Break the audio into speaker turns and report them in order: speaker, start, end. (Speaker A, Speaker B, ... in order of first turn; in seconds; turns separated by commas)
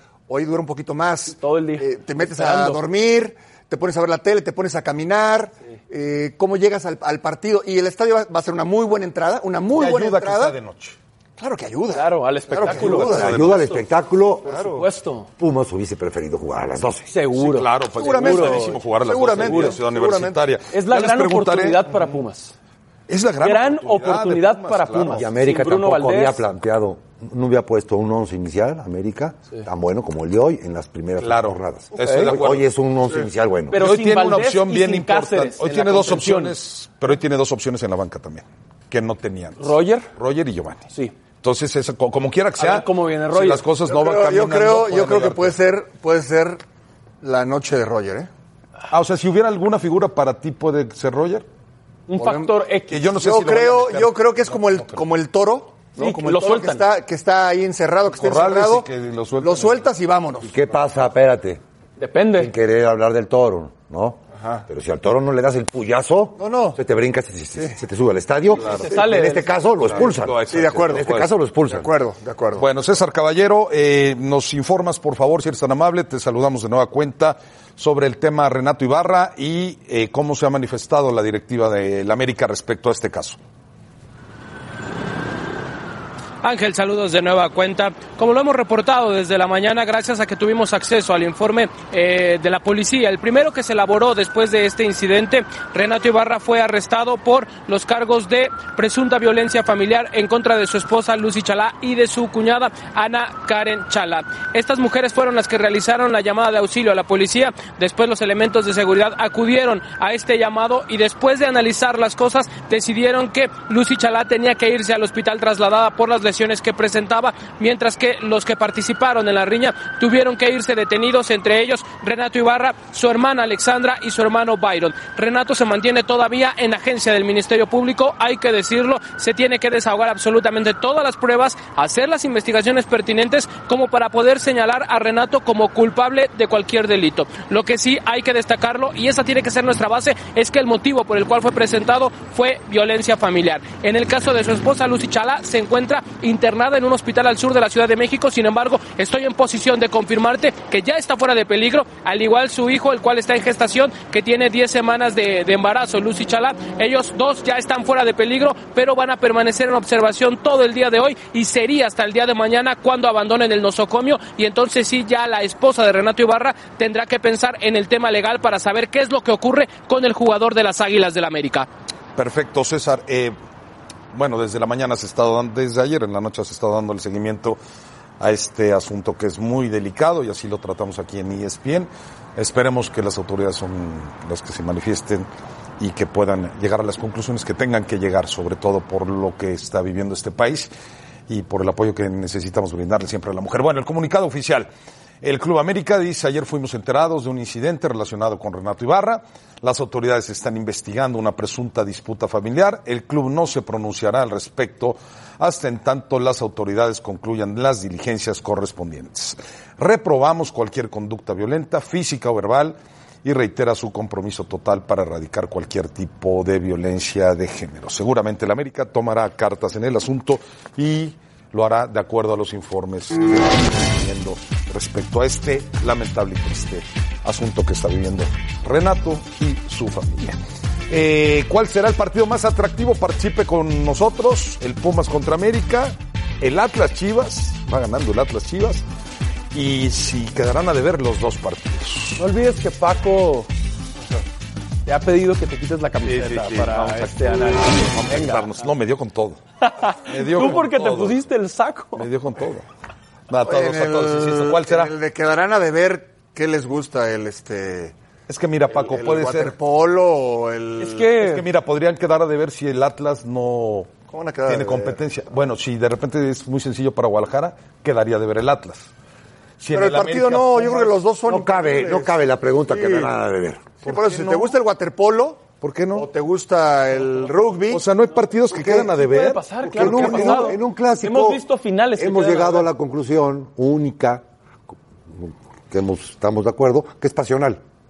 Speaker A: 0.3-10.6, Speaker B: 1.3-2.8, Speaker C: 9.7-11.0, Speaker A: 11.4-13.5, Speaker B: 11.9-13.8, Speaker C: 12.7-13.8, Speaker D: 12.9-14.7, Speaker A: 14.5-14.8, Speaker B: 14.5-15.3, Speaker D: 15.4-17.1, Speaker B: 17.1-18.8, Speaker C: 17.4-22.0, Speaker A: 17.9-20.4, Speaker B: 19.4-19.8, Speaker B: 20.7-22.5, Speaker C: 23.1-25.3, Speaker B: 23.4-26.4, Speaker D: 25.1-33.8, Speaker C: 31.2-32.7, Speaker B: 31.9-32.4, Speaker B: 33.7-36.5, Speaker C: 33.7-40.8, Speaker B: 39.6-40.1, Speaker C: 41.4-45.6, Speaker B: 42.6-43.6, Speaker A: 43.9-46.6, Speaker A: 47.2-48.3, Speaker C: 48.9-51.5, Speaker B: 52.1-53.2, Speaker A: 52.2-52.5, Speaker C: 52.9-55.0, Speaker A: 53.1-58.9, Speaker B: 56.0-56.8, Speaker C: 58.1-59.8, Speaker A: 59.4-60.6, Speaker D: 60.4-61.6, Speaker B: 62.0-62.5, Speaker D: 62.3-71.9, Speaker A: 66.4-66.8, Speaker C: 68.5-68.9, Speaker B: 68.7-69.5, Speaker C: 69.8-71.3, Speaker A: 70.5-71.1, Speaker A: 71.7-72.6, Speaker C: 72.6-83.4, Speaker E: 86.4-171.7, Speaker C: 172.2-173.3, Speaker C: 174.1-177.6, Speaker C: 178.2-185.3, Speaker C: 185.8-190.7, Speaker C: 191.3-194.7, Speaker C: 195.2-238.8, Speaker C: 239.5-242.2, Speaker B: 242.2-243.5, Speaker B: 244.8-248.5, Speaker C: 246.1-249.4, Speaker B: 249.6-252.1, Speaker C: 250.1-251.2, Speaker C: 251.9-252.6, Speaker C: 253.3-254.9, Speaker A: 253.4-257.9, Speaker C: 258.3-259.5, Speaker A: 258.7-261.1, Speaker B: 260.8-261.4, Speaker C: 261.2-263.9, Speaker A: 264.1-265.0, Speaker C: 264.4-268.9, Speaker C: 269.6-270.9, Speaker A: 269.7-272.1, Speaker D: 271.3-273.7, Speaker A: 272.7-273.1, Speaker C: 273.8-274.5, Speaker A: 273.8-277.8, Speaker C: 275.6-276.1, Speaker C: 277.7-280.5, Speaker D: 278.5-278.9, Speaker B: 278.9-282.7, Speaker D: 279.6-281.4, Speaker D: 281.9-284.2, Speaker D: 285.1-287.6